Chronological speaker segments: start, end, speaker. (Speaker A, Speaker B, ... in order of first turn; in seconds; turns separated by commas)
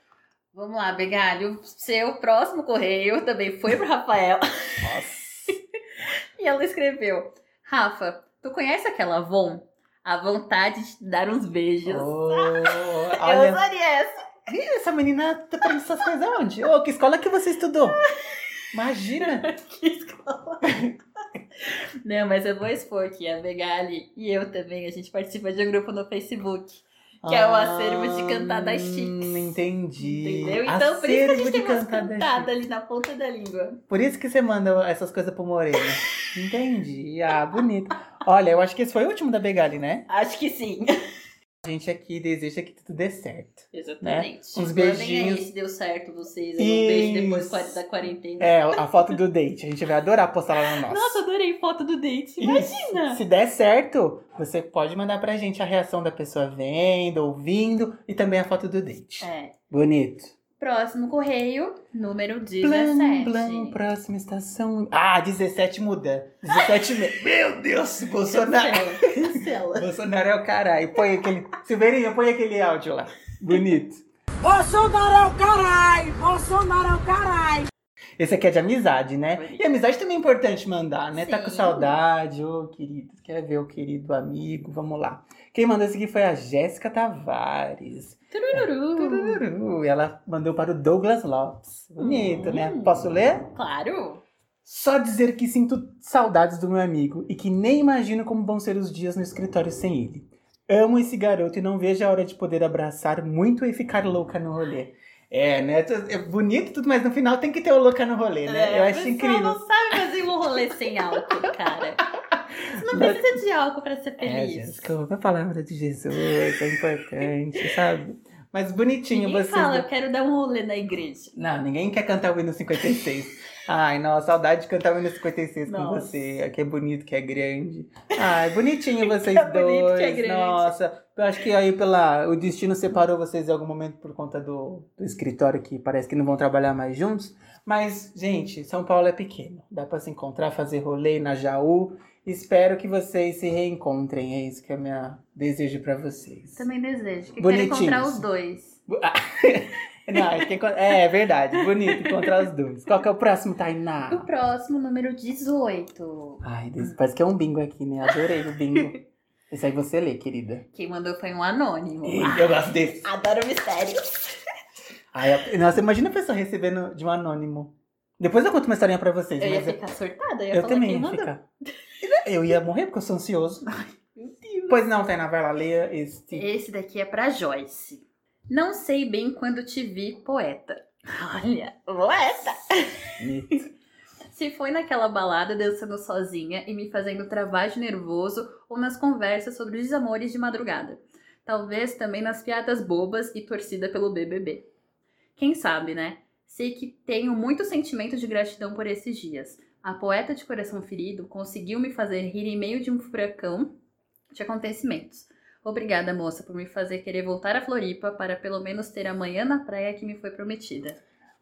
Speaker A: 0.5-4.9, Speaker B: 4.8-5.5, Speaker A: 6.4-14.3, Speaker B: 11.9-13.6, Speaker B: 14.5-18.0, Speaker A: 18.2-18.4, Speaker B: 18.7-19.5, Speaker A: 19.3-20.8, Speaker A: 22.0-33.8, Speaker B: 27.2-32.5, Speaker B: 33.9-40.1, Speaker A: 40.1-40.9, Speaker B: 41.6-45.5, Speaker A: 43.7-48.8, Speaker B: 46.6-47.8, Speaker B: 48.4-51.2, Speaker A: 50.8-53.2, Speaker B: 52.4-60.4, Speaker A: 59.2-59.5, Speaker A: 60.6-63.8, Speaker B: 62.6-74.0, Speaker A: 68.3-69.9, Speaker C: 74.5-77.5, Speaker B: 78.2-93.5, Speaker A: 79.3-79.7, Speaker A: 81.1-82.0, Speaker A: 88.3-89.4, Speaker A: 92.0-93.0, Speaker A: 93.5-94.2, Speaker B: 94.6-109.6, Speaker A: 108.5-112.0, Speaker B: 112.3-113.4, Speaker A: 112.8-114.8, Speaker B: 114.2-119.9, Speaker A: 119.1-121.3, Speaker B: 121.3-146.7, Speaker A: 125.7-126.1, Speaker A: 129.0-130.7, Speaker A: 146.6-148.8, Speaker B: 147.4-148.2, Speaker B: 148.9-154.3, Speaker A: 150.1-150.4, Speaker A: 151.7-152.5, Speaker A: 154.1-156.9, Speaker B: 156.4-159.0, Speaker B: 159.5-160.7, Speaker A: 160.7-164.4, Speaker B: 162.0-163.1, Speaker B: 165.1-169.8, Speaker A: 169.4-171.3, Speaker B: 170.5-171.4, Speaker B: 172.0-173.7, Speaker A: 174.1-174.8, Speaker B: 174.7-176.5, Speaker A: 176.3-183.6, Speaker B: 183.2-183.7, Speaker A: 184.3-194.6, Speaker A: 195.4-203.7, Speaker A: 204.3-211.0